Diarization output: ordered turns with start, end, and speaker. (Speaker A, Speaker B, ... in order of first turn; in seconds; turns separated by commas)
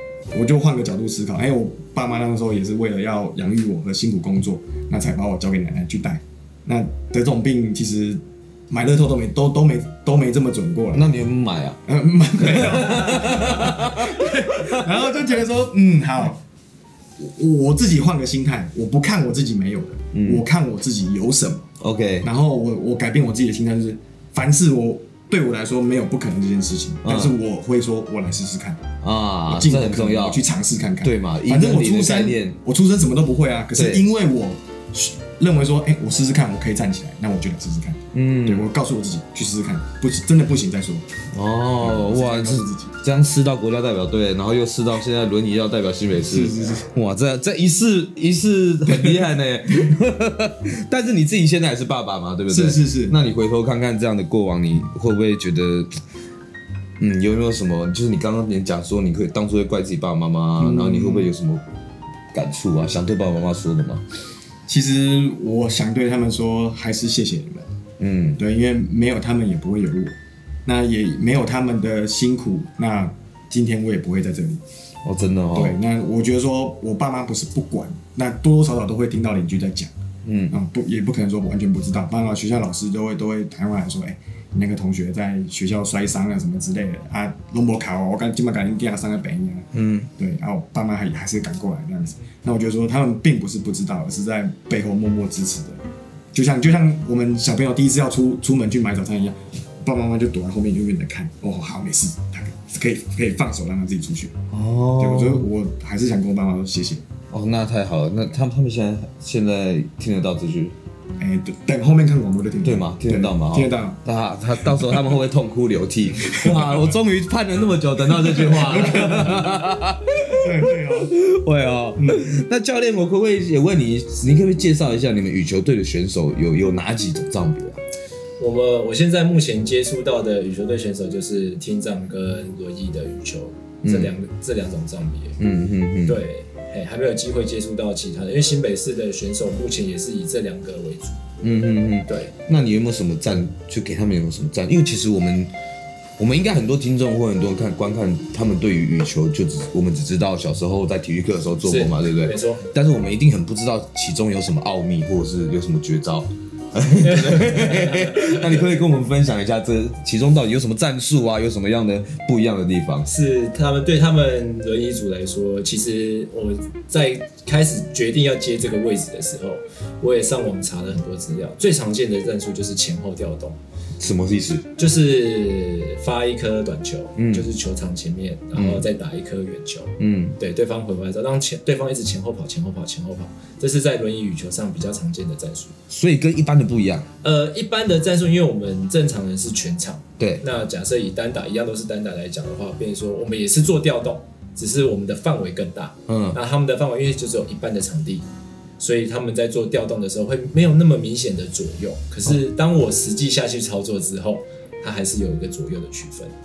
Speaker A: 0.3-11.1, Speaker B: 10.9-11.8, Speaker A: 11.9-16.4, Speaker B: 12.4-15.0, Speaker A: 17.2-21.7, Speaker B: 20.1-20.4, Speaker B: 21.8-22.3, Speaker A: 22.2-28.8, Speaker B: 27.1-27.3, Speaker B: 29.0-30.4, Speaker A: 29.5-41.1, Speaker B: 31.0-32.6, Speaker B: 33.8-34.0, Speaker B: 38.1-38.7, Speaker B: 41.3-55.9, Speaker A: 41.8-43.0, Speaker A: 46.3-46.9, Speaker A: 48.9-49.2, Speaker A: 52.5-53.2, Speaker B: 57.0-61.6, Speaker A: 60.6-61.3, Speaker B: 62.3-64.0, Speaker A: 64.7-67.7, Speaker B: 68.0-68.4, Speaker A: 68.4-70.2, Speaker A: 70.7-74.6, Speaker B: 75.0-75.8, Speaker A: 75.5-79.9, Speaker B: 80.2-80.6, Speaker A: 80.5-95.8, Speaker B: 89.7-90.1, Speaker A: 96.3-104.3, Speaker B: 104.5-105.5, Speaker A: 105.0-107.0, Speaker B: 107.3-110.8, Speaker A: 111.2-114.0, Speaker B: 112.6-127.8, Speaker A: 114.6-115.1, Speaker A: 116.2-116.9, Speaker A: 118.2-119.7, Speaker A: 120.2-121.1, Speaker A: 122.0-122.2, Speaker C: 128.4-135.4, Speaker B: 133.8-134.1, Speaker B: 135.4-136.2, Speaker C: 136.1-141.2, Speaker B: 141.4-145.5, Speaker C: 142.1-142.3, Speaker B: 146.2-163.1, Speaker C: 151.7-152.7, Speaker C: 157.0-158.6, Speaker C: 163.1-173.6, Speaker B: 174.0-174.7, Speaker C: 174.8-185.8, Speaker B: 177.2-177.5, Speaker B: 178.6-178.8, Speaker B: 180.0-180.4, Speaker B: 185.9-187.1, Speaker C: 187.2-198.3, Speaker B: 196.1-196.4, Speaker C: 198.8-206.3